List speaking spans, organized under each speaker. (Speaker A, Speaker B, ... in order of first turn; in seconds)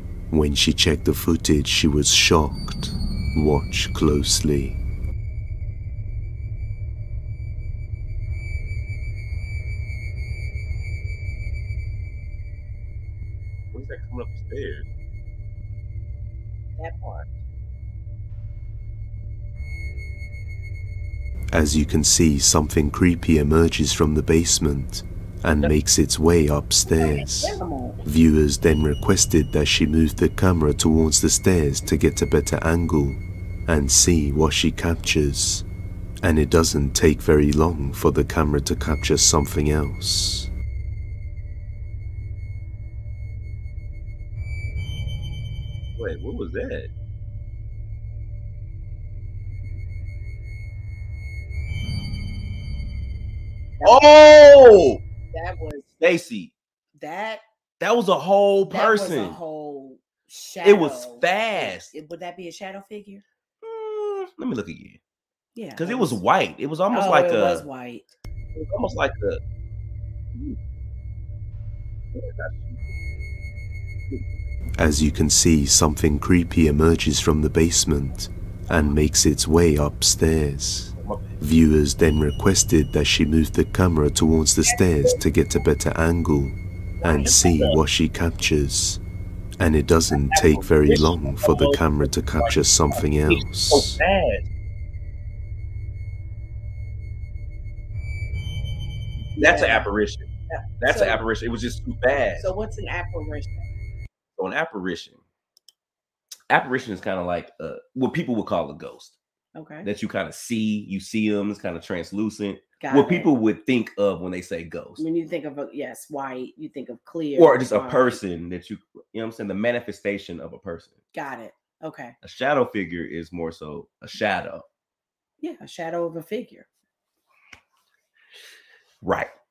Speaker A: 0.3-4.8, 21.5-35.6, 36.2-40.5, 74.8-89.0, 89.6-94.0
Speaker B: 13.7-14.9, 46.0-46.9, 53.8-55.0, 56.0-56.5, 57.8-59.4, 60.6-61.9, 63.6-65.0, 65.8-67.6, 68.5-69.4, 72.1-72.8, 81.0-81.4, 87.0-87.8, 90.1-94.5, 99.3-100.2, 100.8-102.5, 104.3-105.2, 106.5-109.2, 109.8-115.0, 117.4-120.9, 122.2-124.7, 129.0-129.3
Speaker C: 16.8-17.3, 26.9-28.0, 55.3-55.9, 56.9-57.4, 58.7-63.2, 65.5-66.2, 66.9-68.1, 99.3-99.9, 100.5-101.2, 102.4-103.7, 109.5-109.9, 112.8-113.3, 115.0-118.2, 121.1-122.1, 125.4-126.7